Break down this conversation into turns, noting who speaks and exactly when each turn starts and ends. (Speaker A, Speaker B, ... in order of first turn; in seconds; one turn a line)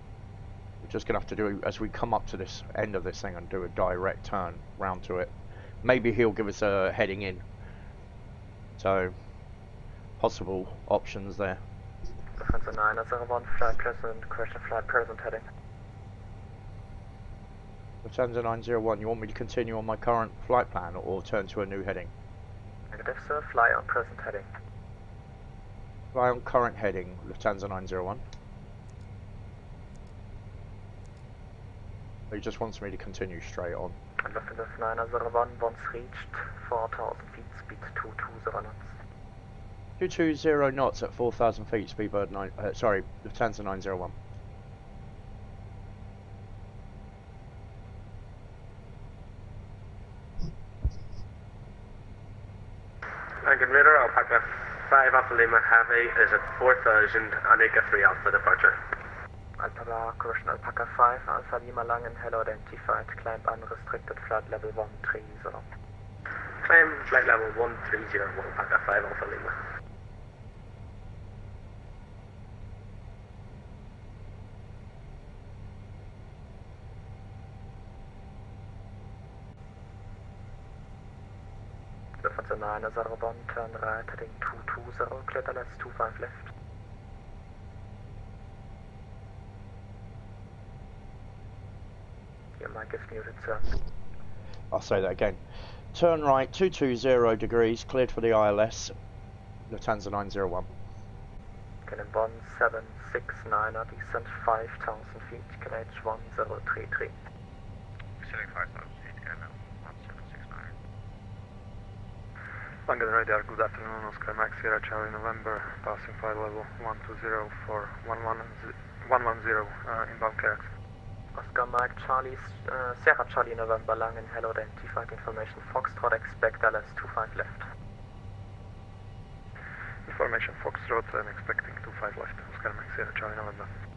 Speaker A: 0.8-7.4
Speaker A: 8.8-9.1
Speaker A: 10.2-11.6
Speaker B: 12.4-15.4
Speaker A: 18.0-22.1
Speaker B: 22.9-24.5
Speaker A: 26.1-28.2
Speaker A: 32.3-34.0
Speaker B: 34.2-39.0
Speaker A: 40.0-44.1
Speaker C: 53.4-59.0
Speaker B: 59.6-65.7
Speaker C: 66.3-69.6
Speaker B: 82.2-86.5
Speaker B: 92.6-93.7
Speaker A: 94.7-98.9
Speaker A: 99.7-100.7
Speaker B: 101.9-107.2
Speaker D: 108.2-110.7
Speaker E: 112.8-120.7
Speaker B: 121.3-127.7
Speaker E: 130.0-133.7